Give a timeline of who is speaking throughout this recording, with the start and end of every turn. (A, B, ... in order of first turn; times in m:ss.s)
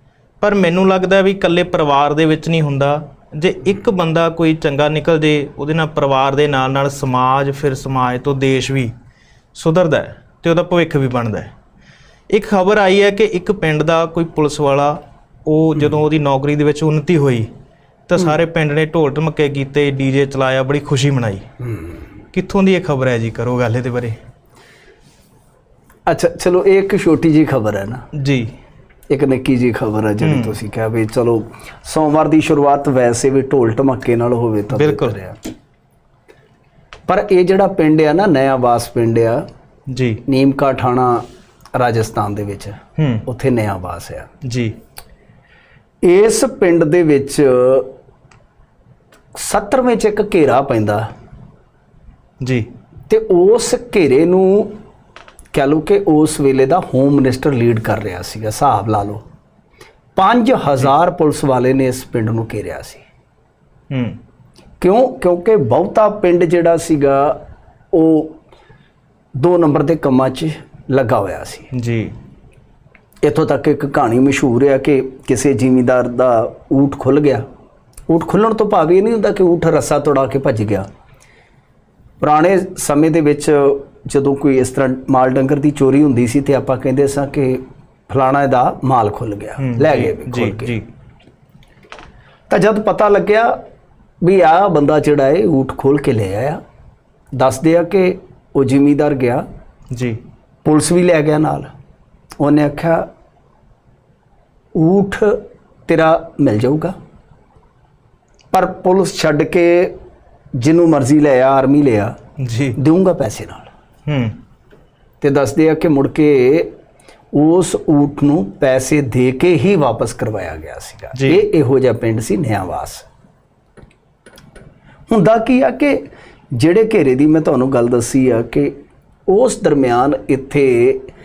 0:00.4-0:08.9 A
0:09.5-0:11.5 A
0:12.3-0:17.5 A
0:18.1-0:21.5 A
0:21.6-0:22.0 B
0:22.3-0:24.2 A
0:26.1-0:28.0 B
0:28.1-0:28.5 A
0:29.1-0:35.4 B
0:30.2-0:30.6 A
0:34.7-0:35.2 A
0:37.1-0:39.4 B
0:39.9-0:40.2 A
0:40.3-0:44.3 B
0:43.0-0:43.2 A
0:44.4-0:44.7 A
0:46.0-0:47.9 B
0:49.4-0:51.0 B
0:52.4-0:52.7 A
0:53.1-0:54.7 B
0:55.5-0:59.2 B
1:00.2-1:03.0 B
1:03.9-1:04.2 A
1:04.8-1:07.4 B
1:07.9-1:08.4 B
1:09.4-1:11.7 B
1:11.7-1:12.1 A
1:13.2-1:17.4 B
1:18.1-1:20.9 B
1:22.2-1:30.8 B
1:29.6-1:30.8 A
1:32.5-1:33.5 B
1:34.2-1:36.6 B
1:37.4-1:39.4 B
1:39.9-1:40.2 A
1:40.6-1:41.7 B
1:42.4-1:43.0 B
1:44.7-1:46.9 B
1:48.5-1:49.9 B
1:50.6-1:52.1 B
1:52.4-1:52.8 A
1:52.8-1:53.7 B
1:54.0-1:54.4 A
1:55.2-1:56.7 B
1:57.3-2:03.0 B
2:01.1-2:01.4 A
2:05.1-2:08.7 B
2:09.3-2:11.0 B